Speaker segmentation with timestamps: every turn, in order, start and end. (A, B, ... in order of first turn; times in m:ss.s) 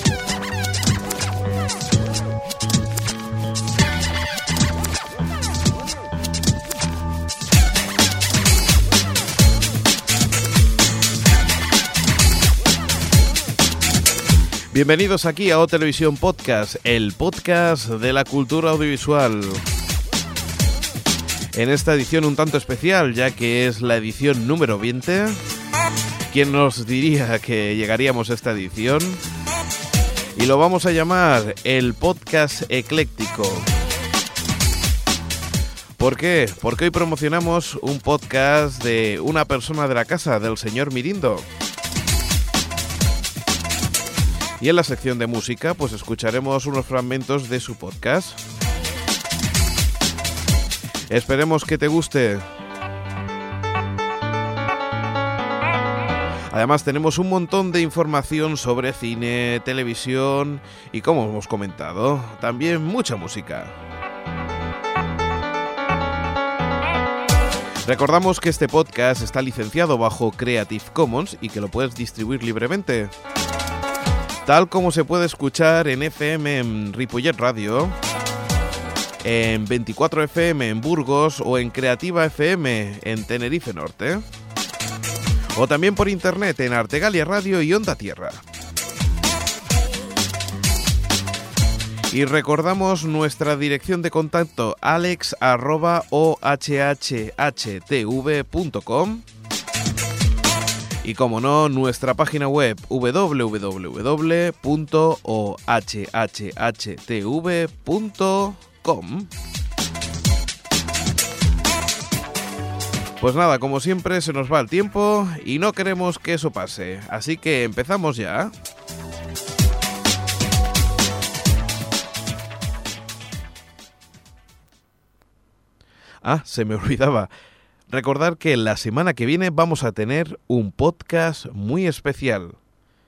0:14.7-0:19.6 A
0:21.5-0:25.4 A
0:26.3-0:29.2 A
0:30.4-0:33.7 A
0:36.0-0:41.5 A
0:44.6-0:48.4 A
0:51.1-0:52.5 A
0:56.5-1:03.8 A
1:07.8-1:13.1 A
1:14.4-1:18.0 A
1:19.2-1:24.2 A
1:25.5-1:28.4 A
1:32.1-1:39.2 A
1:41.0-1:49.3 A
1:53.2-1:58.5 A
2:06.2-2:07.3 A
2:07.9-2:12.6 A